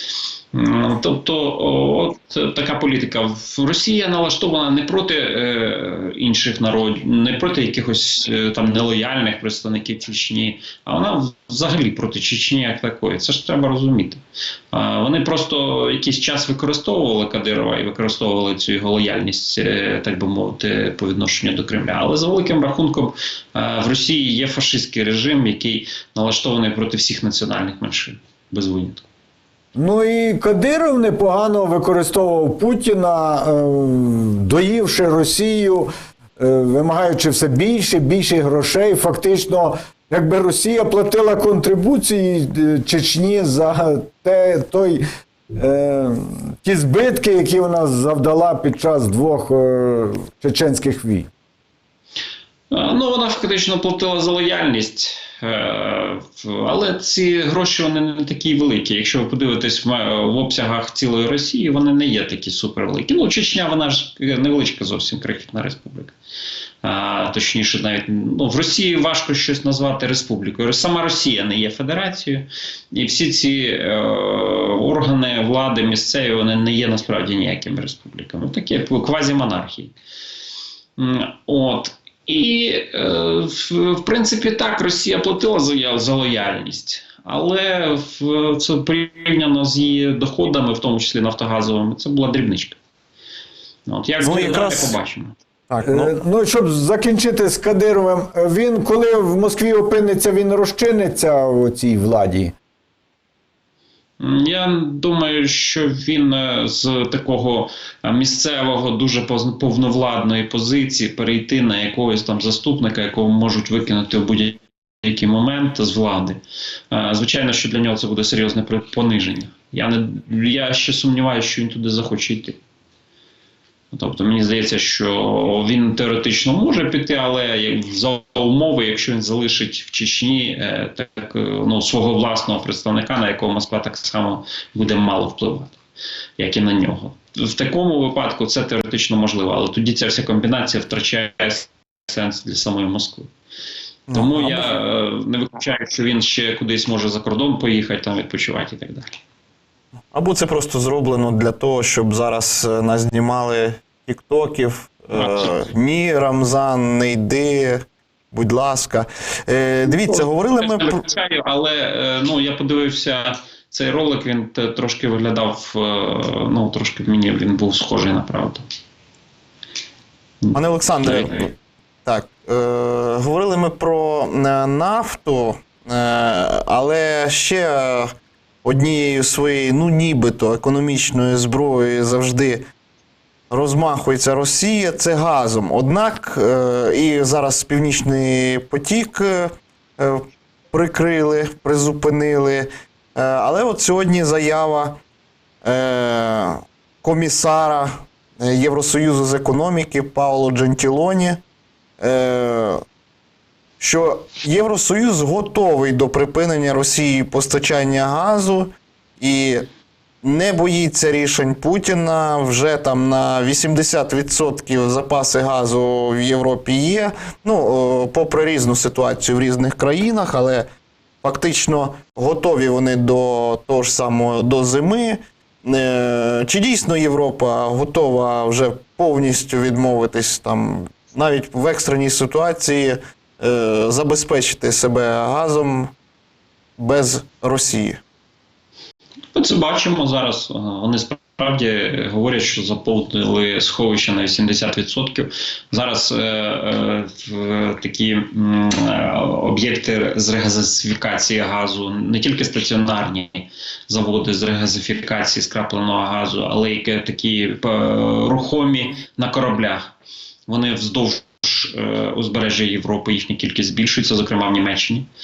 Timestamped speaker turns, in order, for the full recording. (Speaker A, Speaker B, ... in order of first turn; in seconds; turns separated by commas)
Speaker A: 0.5-29.1, Speaker B: 29.8-45.0, Speaker B: 45.5-51.3, Speaker A: 52.7-66.2, Speaker A: 66.8-79.9, Speaker A: 81.0-92.8, Speaker A: 93.9-95.3, Speaker C: 94.2-95.0, Speaker C: 95.7-96.1, Speaker B: 95.8-102.5, Speaker A: 104.2-116.4, Speaker A: 116.9-122.6, Speaker A: 123.9-135.8, Speaker A: 136.4-143.3, Speaker C: 144.1-144.7, Speaker A: 144.1-149.2, Speaker C: 150.1-161.0, Speaker A: 155.2-155.7, Speaker A: 159.9-168.6, Speaker A: 170.4-171.5, Speaker C: 170.5-182.7, Speaker C: 183.5-195.0, Speaker C: 195.6-201.4, Speaker C: 202.0-202.8, Speaker C: 203.8-209.7, Speaker C: 210.2-220.7, Speaker C: 221.2-235.9, Speaker C: 236.8-238.0, Speaker A: 239.3-259.9, Speaker A: 260.5-265.1